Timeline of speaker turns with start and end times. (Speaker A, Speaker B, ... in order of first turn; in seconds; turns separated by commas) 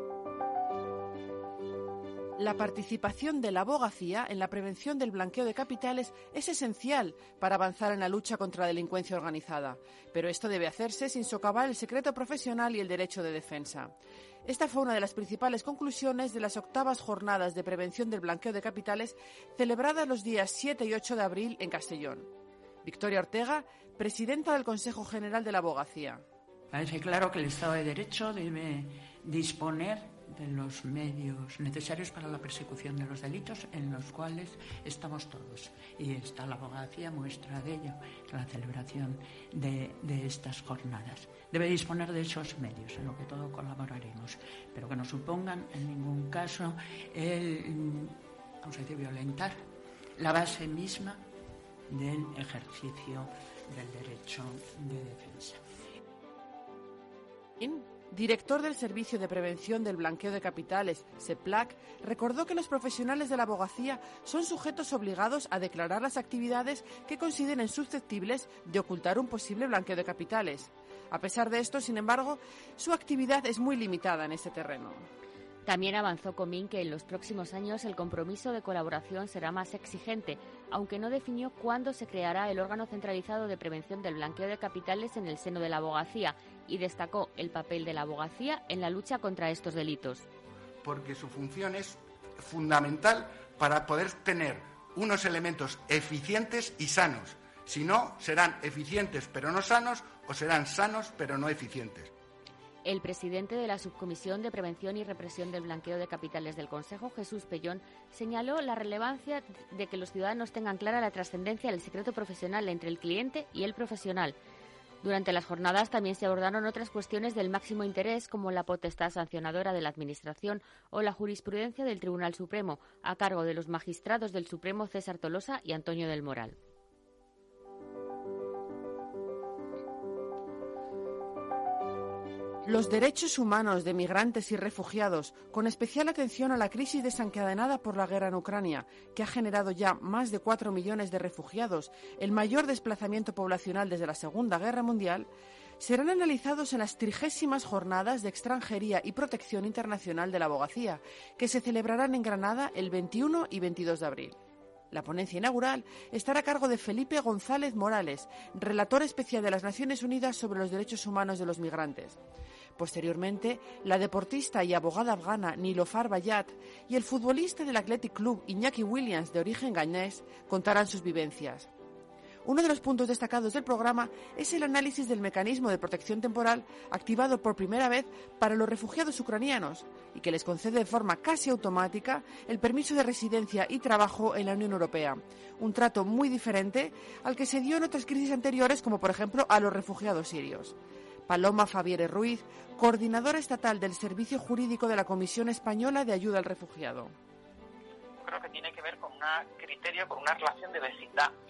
Speaker A: 2.4-22.3, Speaker A: 22.8-26.2, Speaker B: 26.7-49.6, Speaker B: 50.2-51.2, Speaker B: 51.9-55.6, Speaker A: 57.6-75.0, Speaker C: 75.6-90.2, Speaker D: 90.8-102.1, Speaker C: 102.8-114.3, Speaker C: 115.0-126.5, Speaker A: 132.6-145.3, Speaker A: 145.8-154.3, Speaker A: 154.9-162.2, Speaker A: 162.8-171.7, Speaker A: 172.4-190.7, Speaker A: 191.3-197.1, Speaker E: 198.2-201.3